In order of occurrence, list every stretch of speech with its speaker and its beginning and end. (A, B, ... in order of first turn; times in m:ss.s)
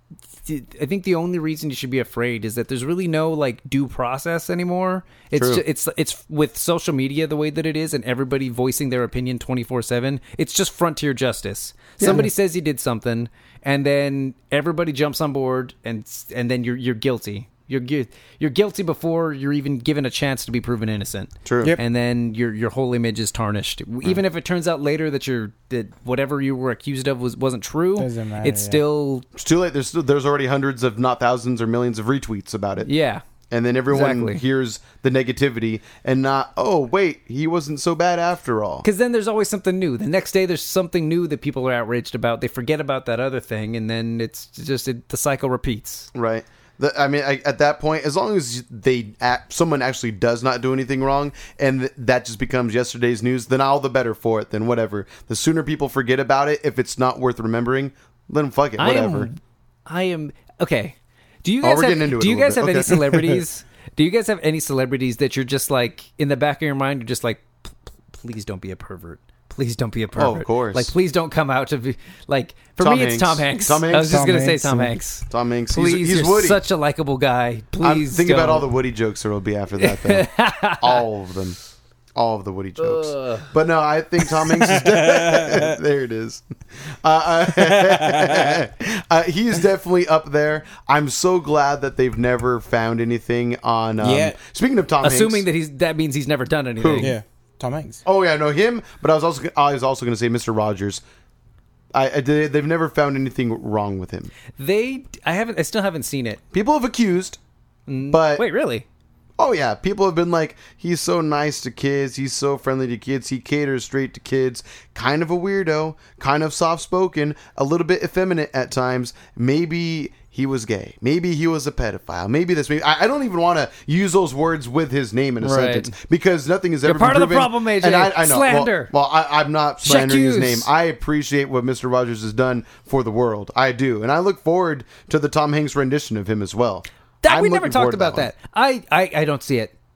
0:00.4-0:29.2 A
0:05.3-0:05.6 B
0:12.0-0:12.3 B
0:21.4-0:21.8 B
0:28.0-0:28.8 C
0:29.4-0:32.9 B
0:32.8-0:33.2 A
0:33.5-0:38.8 B
0:33.9-0:34.4 A
0:38.8-0:46.1 A
0:46.1-0:59.3 B
0:58.8-1:18.7 A
1:01.6-1:03.4 B
1:10.1-1:10.9 B
1:12.8-1:14.3 B
1:14.0-1:14.9 C
1:15.3-1:16.6 B
1:17.8-1:21.6 B
1:19.8-1:21.0 A
1:22.2-1:26.4 B
1:22.8-1:23.5 A
1:24.3-1:25.8 C
1:27.0-1:35.4 B
1:27.5-1:28.6 C
1:34.0-1:34.4 C
1:35.0-1:37.1 A
1:36.8-1:37.1 B
1:37.0-1:38.0 C
1:38.0-1:41.0 B
1:41.9-1:44.3 B
1:44.6-1:46.4 A
1:46.5-1:47.4 B
1:47.9-1:48.8 A
1:48.1-1:48.4 B
1:49.4-2:18.3 B
2:05.4-2:05.9 A
2:06.8-2:08.9 A
2:09.8-2:10.7 A
2:17.2-2:19.7 A